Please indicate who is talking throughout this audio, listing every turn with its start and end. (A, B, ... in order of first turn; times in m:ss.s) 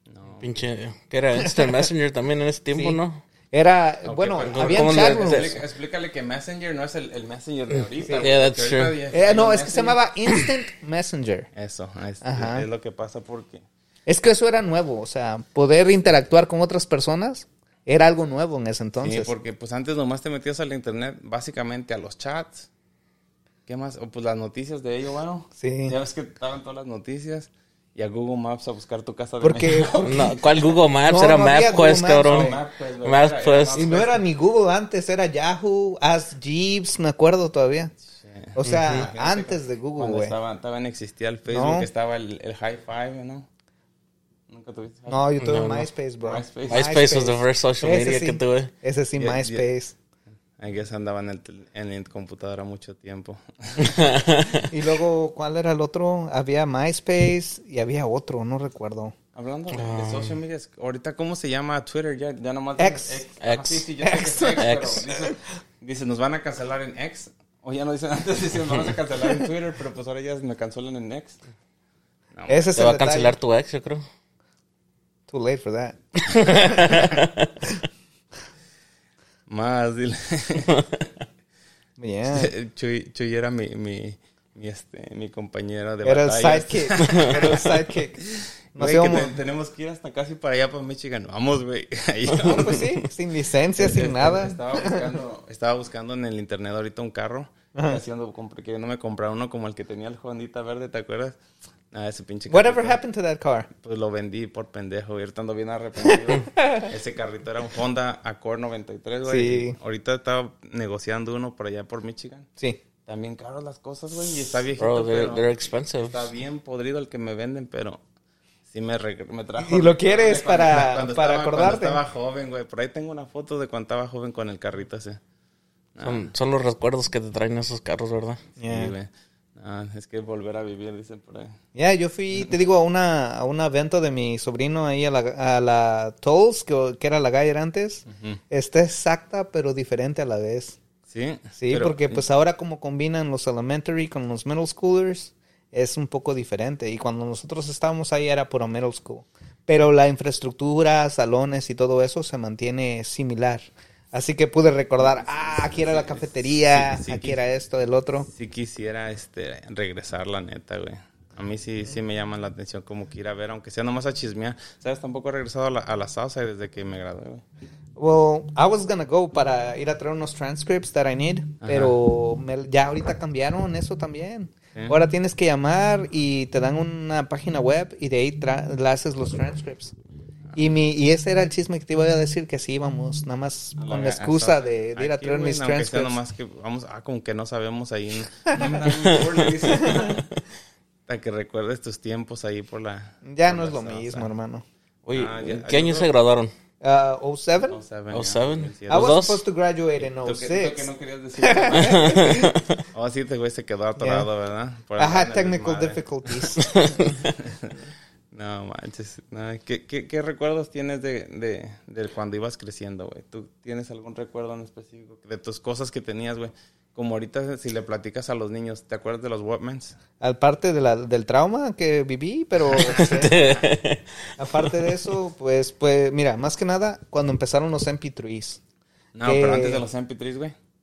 0:00.1-0:00.5 A
0:00.4-0:03.2 B
0:01.4-0:01.9 C
0:02.7-0:03.0 C
0:03.5-0:05.6 C
0:04.0-0:10.0 A
0:04.5-0:05.5 B
0:08.2-0:09.0 B
0:09.1-0:11.5 C
0:11.5-0:13.6 A
0:12.2-0:12.7 C
0:14.1-0:19.3 C
0:19.0-0:22.7 A
0:23.7-0:30.8 A
0:25.6-0:26.0 C
0:29.4-0:30.3 C
0:30.0-0:33.9 B
0:31.0-0:32.6 C
0:32.2-0:34.2 A
0:33.7-0:37.9 C
0:38.1-0:43.5 A
0:38.6-0:40.3 C
0:38.6-0:39.1 B
0:41.5-0:41.9 C
0:44.5-0:45.2 A
0:45.1-0:49.9 C
0:45.4-0:45.9 B
0:46.2-0:46.9 A
0:46.7-0:48.7 B
0:49.2-0:49.7 A
0:50.6-0:54.6 A
0:53.8-0:54.7 B
0:54.7-0:59.2 C
0:59.4-1:11.4 A
0:59.7-1:00.4 B
1:02.8-1:03.2 C
1:03.4-1:03.9 B
1:04.0-1:05.3 C
1:04.6-1:05.0 B
1:12.3-1:12.7 A
1:12.5-1:13.4 C
1:12.8-1:14.0 B
1:15.3-1:17.2 C
1:16.3-1:17.5 B
1:19.5-1:21.1 A
1:22.0-1:22.5 C
1:22.3-1:33.0 A
1:26.0-1:28.2 C
1:27.1-1:27.3 B
1:28.8-1:29.3 C
1:32.4-1:35.1 C
1:33.8-1:41.4 A
1:37.8-1:38.0 C
1:41.9-1:43.0 A
1:42.5-1:43.7 C
1:43.8-1:52.5 A
1:46.6-1:46.9 C
1:49.3-1:49.8 C
1:53.0-1:58.0 A
1:54.8-1:56.2 B
1:58.7-2:05.2 A
1:59.6-2:02.0 C
2:06.0-2:06.3 A
2:06.0-2:08.4 B
2:08.6-2:08.9 C
2:08.6-2:11.6 A
2:11.8-2:20.8 C
2:18.1-2:18.4 A
2:21.1-2:22.2 A
2:21.6-2:38.3 C
2:35.0-2:37.4 A
2:38.2-2:47.4 A
2:48.0-2:59.9 C
2:51.6-2:52.0 A
3:00.6-3:06.2 C
3:03.8-3:10.2 A
3:11.1-3:14.3 A
3:13.2-3:14.6 C
3:15.1-3:16.5 B
3:15.1-3:16.1 A
3:16.8-3:17.8 C
3:17.7-3:19.2 A
3:18.1-3:19.4 B
3:18.9-3:20.9 C
3:20.2-3:26.0 A
3:21.4-3:22.6 C
3:21.8-3:22.8 B
3:24.0-3:24.3 C
3:25.0-3:27.0 C
3:26.6-3:27.2 B
3:27.1-3:27.8 A
3:28.3-3:40.0 A
3:40.2-3:43.5 C
3:42.7-3:45.0 B
3:44.4-3:48.6 C
3:49.2-3:50.6 A
3:49.2-3:49.8 C